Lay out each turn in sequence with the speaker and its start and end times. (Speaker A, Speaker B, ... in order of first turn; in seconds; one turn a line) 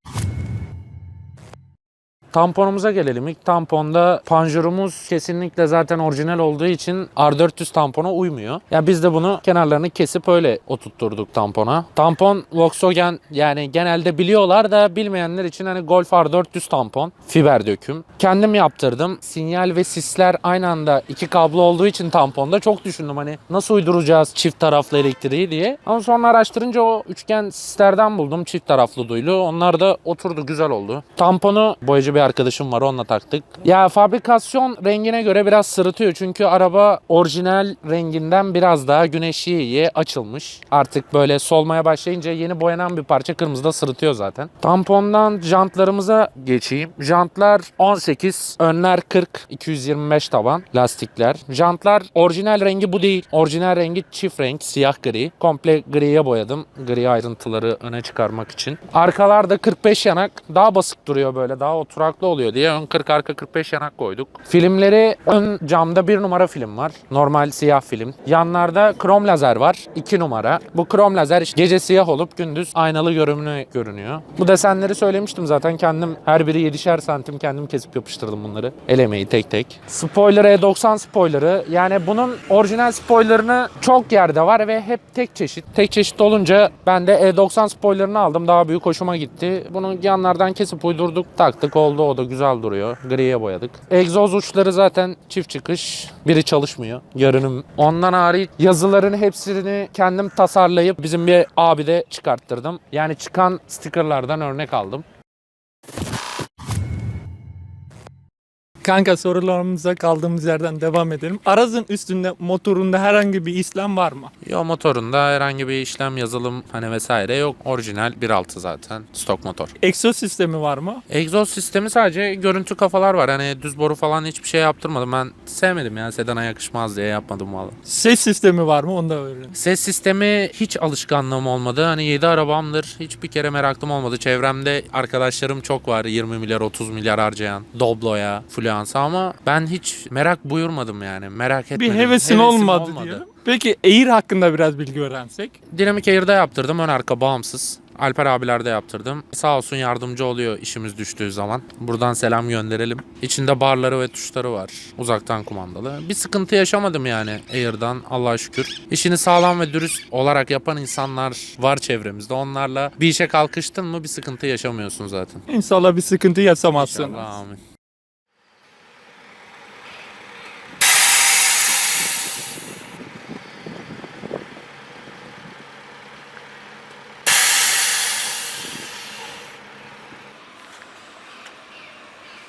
Speaker A: 2.3-105.0
Speaker B: 108.8-114.3
Speaker A: 114.4-119.7
Speaker B: 119.8-121.0
Speaker A: 121.1-127.8
Speaker B: 127.9-129.5
Speaker A: 129.5-143.2
Speaker B: 141.7-145.6
Speaker A: 145.7-165.4
Speaker B: 165.5-167.3
Speaker A: 166.8-167.6